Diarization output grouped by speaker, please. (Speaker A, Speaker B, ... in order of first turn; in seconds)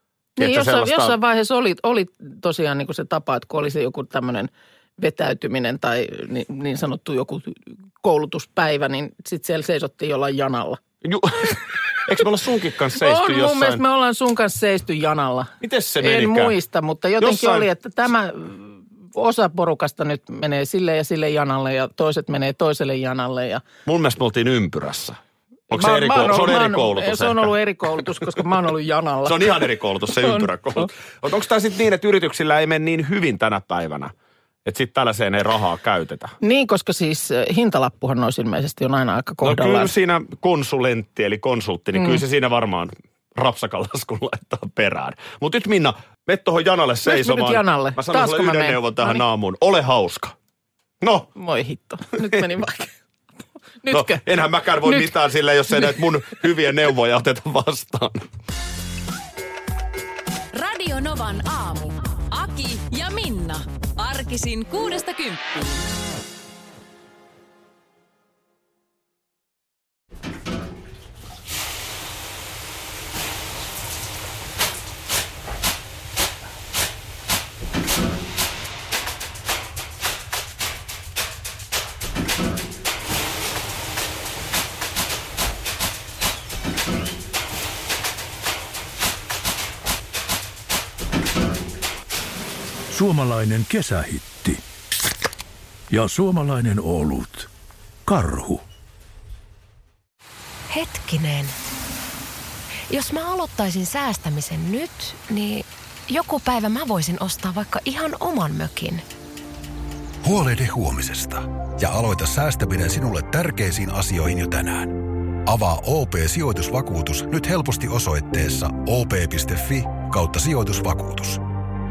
Speaker A: 0.4-10.8, 12.9-23.6, 25.7-30.9, 36.4-39.9, 42.0-42.2, 47.1-49.2, 51.4-52.9, 53.8-55.1
Speaker B: 0.4-1.2, 11.0-13.8, 15.6-16.6, 17.2-17.7, 23.9-25.2, 25.7-28.2, 29.2-34.1, 34.6-36.4, 39.4-50.4, 51.0-51.3, 52.2-52.4, 53.9-58.3
Speaker C: 60.5-65.9
Speaker D: 92.9-94.6, 95.9-97.5, 98.1-98.7
Speaker E: 100.7-101.6, 102.9-109.0
Speaker F: 110.2-121.4